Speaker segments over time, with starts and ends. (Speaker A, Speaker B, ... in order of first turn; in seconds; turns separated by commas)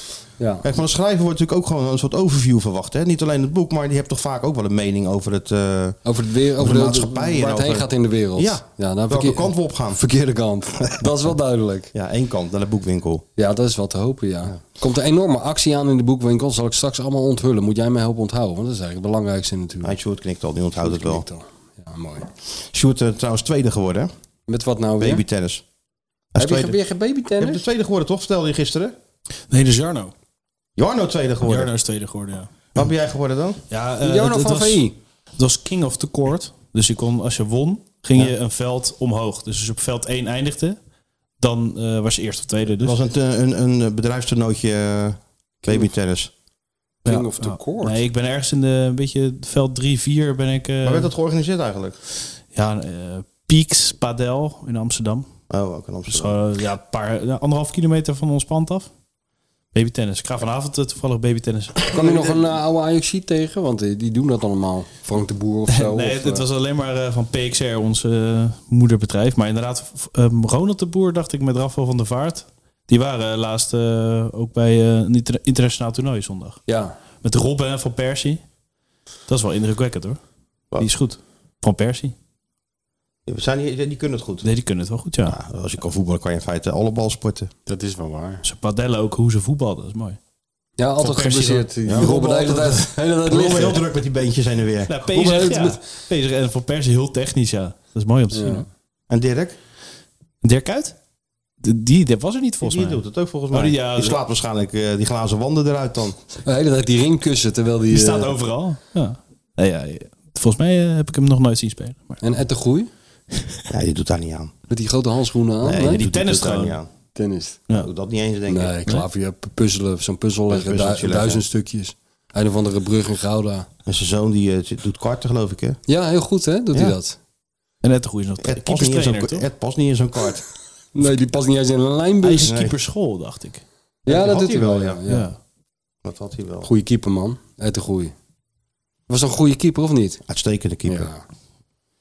Speaker A: 0.4-0.6, Speaker B: 0.6-6.0, Speaker A: 6.0-11.9, Speaker B: 6.6-10.0, Speaker B: 11.9-13.2, Speaker A: 13.4-19.9, Speaker B: 19.8-21.2, Speaker A: 20.8-22.3, Speaker B: 22.7-24.1, Speaker A: 24.5-25.2, Speaker B: 25.0-25.6, Speaker B: 26.3-26.8, Speaker A: 26.4-27.6, Speaker B: 27.4-29.0, Speaker C: 29.5-30.1, Speaker B: 30.8-31.7, Speaker C: 31.5-32.7, Speaker B: 32.8-33.6, Speaker C: 33.7-34.8, Speaker A: 34.0-35.0, Speaker C: 35.4-40.8, Speaker C: 41.4-43.0, Speaker B: 42.8-46.3, Speaker A: 47.0-48.0, Speaker C: 47.1-51.1, Speaker B: 50.8-52.0, Speaker C: 52.5-55.3, Speaker B: 55.5-56.4, Speaker C: 56.1-58.9, Speaker C: 59.7-61.8, Speaker A: 61.9-66.4, Speaker B: 61.9-62.4, Speaker C: 65.7-76.6, Speaker A: 76.7-77.0, Speaker C: 77.2-78.4, Speaker C: 79.3-80.2, Speaker C: 80.8-82.1, Speaker B: 83.3-84.5, Speaker C: 84.4-85.4, Speaker B: 85.2-87.5, Speaker A: 87.7-88.4, Speaker C: 88.4-90.2, Speaker A: 90.8-93.8, Speaker C: 91.0-92.0, Speaker B: 91.9-94.9, Speaker C: 94.9-98.7, Speaker A: 95.1-95.8, Speaker A: 98.3-98.7, Speaker B: 99.1-99.6, Speaker C: 100.4-100.9, Speaker C: 101.6-103.0, Speaker B: 102.6-106.2, Speaker C: 103.5-104.2, Speaker A: 106.5-108.4, Speaker C: 107.9-112.2, Speaker A: 112.2-112.9, Speaker B: 113.7-114.5, Speaker A: 114.7-116.0, Speaker B: 115.6-116.9, Speaker C: 115.8-116.8, Speaker A: 117.2-117.6, Speaker B: 117.7-118.7, Speaker A: 118.5-123.7, Speaker B: 120.5-121.4, Speaker B: 123.9-125.8, Speaker A: 125.9-127.2, Speaker C: 127.8-129.4, Speaker B: 128.4-130.4, Speaker A: 130.9-132.6, Speaker C: 132.2-133.6, Speaker B: 132.4-132.7, Speaker B: 134.1-135.0, Speaker A: 134.1-135.3, Speaker C: 135.1-135.3, Speaker B: 136.0-136.7, Speaker A: 136.6-138.1, Speaker A: 139.1-140.2, Speaker B: 140.3-141.1, Speaker A: 140.9-141.2